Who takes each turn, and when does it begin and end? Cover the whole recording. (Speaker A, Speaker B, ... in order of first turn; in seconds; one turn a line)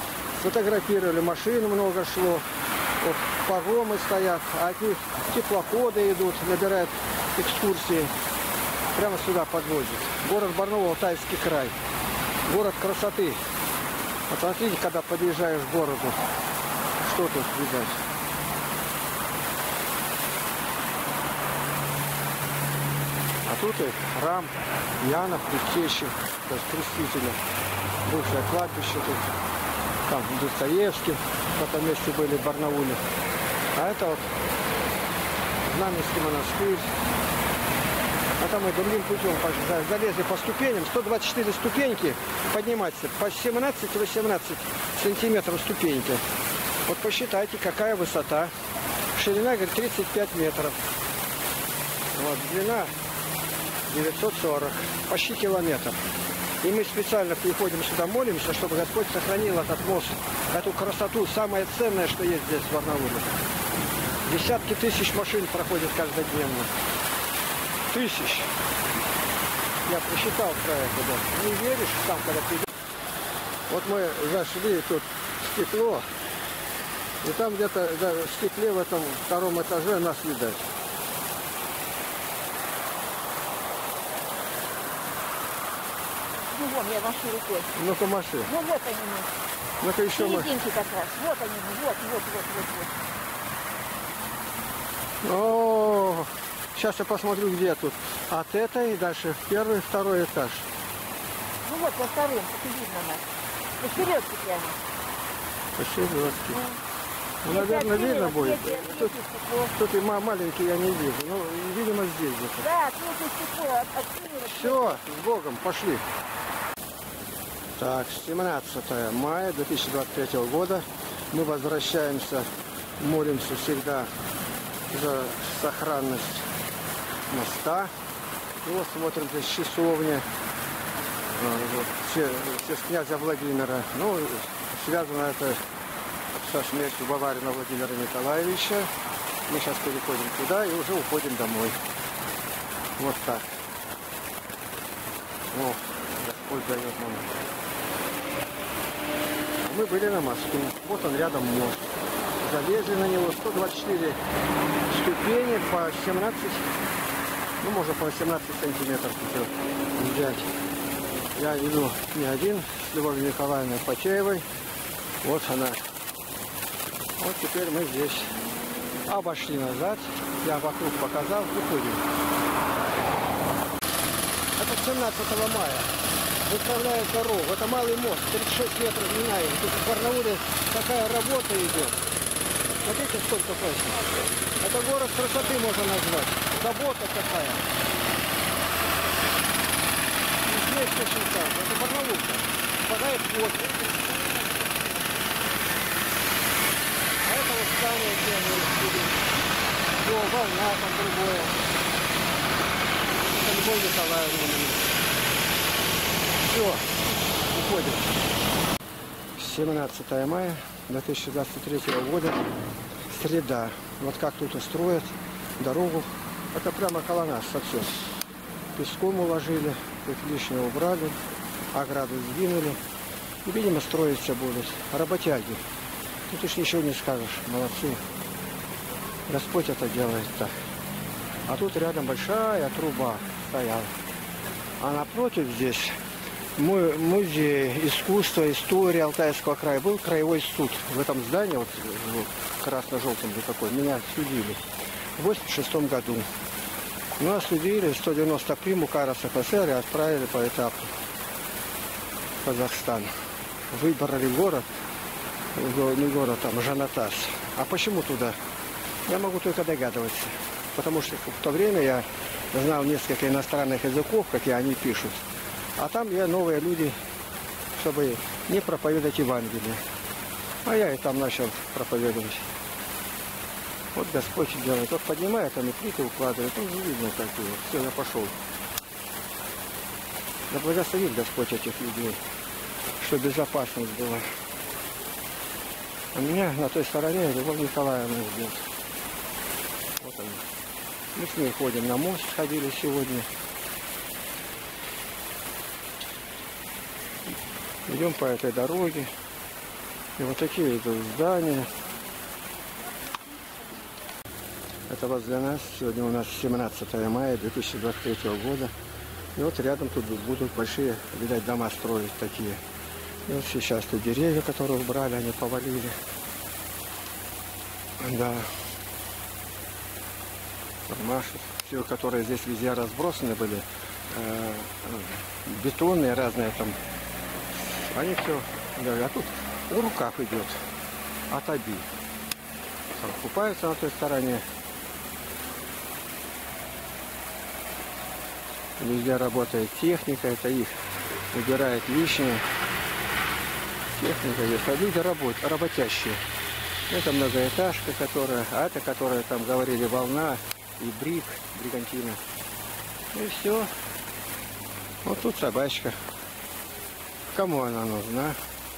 Speaker A: 0.4-2.4
Speaker A: 3.0-8.1
Speaker A: 8.9-11.8
Speaker A: 12.5-13.4
Speaker A: 14.3-16.2
Speaker A: 17.0-18.0
Speaker A: 23.4-27.4
Speaker A: 28.0-29.3
Speaker A: 30.1-33.0
Speaker A: 33.7-34.3
Speaker A: 35.6-36.9
Speaker A: 38.4-46.2
Speaker A: 46.9-48.5
Speaker A: 49.1-50.8
Speaker A: 52.1-52.9
Speaker A: 53.9-56.0
Speaker A: 56.6-63.3
Speaker A: 64.2-66.7
Speaker A: 67.9-68.5
Speaker A: 69.8-72.7
Speaker A: 73.7-76.1
Speaker A: 77.2-80.7
Speaker B: 86.5-87.8
Speaker A: 87.7-88.5
Speaker B: 88.5-89.3
Speaker A: 89.8-90.5
Speaker B: 90.1-93.0
Speaker A: 95.2-100.7
Speaker B: 101.6-103.3
Speaker B: 103.8-104.8
Speaker A: 105.8-106.6
Speaker B: 106.5-106.8
Speaker A: 107.4-109.1
Speaker B: 107.5-109.7
Speaker A: 109.7-112.7
Speaker B: 112.6-115.0
Speaker A: 114.4-116.0
Speaker A: 117.8-124.1
Speaker A: 124.9-126.5
Speaker A: 127.3-127.9
Speaker A: 128.6-130.2
Speaker A: 131.3-135.6
Speaker A: 136.3-138.9
Speaker A: 139.5-141.8
Speaker A: 143.0-143.5
Speaker A: 145.5-147.3
Speaker A: 149.6-154.2
Speaker A: 154.9-156.7
Speaker A: 157.6-160.5
Speaker A: 161.3-164.5
Speaker A: 165.2-165.8
Speaker A: 167.2-168.3
Speaker A: 169.1-172.0
Speaker A: 174.6-175.9
Speaker A: 176.4-182.0
Speaker A: 182.8-187.6
Speaker A: 190.4-194.8
Speaker A: 197.2-199.3
Speaker A: 200.0-201.6
Speaker A: 203.3-204.9
Speaker A: 206.4-208.2
Speaker A: 209.3-212.4
Speaker A: 213.1-217.9
Speaker A: 218.7-221.2
Speaker A: 221.7-222.8
Speaker A: 223.4-225.6
Speaker A: 226.3-228.0
Speaker A: 229.3-230.5
Speaker A: 231.5-233.9
Speaker A: 234.8-236.0
Speaker A: 236.6-244.6
Speaker A: 245.2-246.3
Speaker A: 247.2-250.9
Speaker A: 252.4-253.1
Speaker A: 253.7-254.7
Speaker A: 255.5-258.4
Speaker A: 259.1-265.2
Speaker A: 265.8-267.0
Speaker A: 267.7-269.8
Speaker A: 270.6-272.5
Speaker A: 273.9-278.3
Speaker A: 280.5-282.2
Speaker A: 283.0-284.2
Speaker A: 286.1-288.6
Speaker A: 290.0-290.4
Speaker A: 291.1-293.3
Speaker A: 297.9-299.1
Speaker A: 300.2-301.7
Speaker A: 304.9-308.7
Speaker A: 309.4-312.6
Speaker A: 313.3-315.9
Speaker A: 318.0-318.5
Speaker A: 320.9-326.8
Speaker A: 327.6-330.6
Speaker A: 331.3-331.9
Speaker A: 332.9-334.4
Speaker A: 338.8-340.7
Speaker A: 341.3-342.4
Speaker A: 343.9-346.2
Speaker A: 346.9-352.2
Speaker A: 353.1-353.7
Speaker A: 355.0-355.9
Speaker A: 357.3-358.4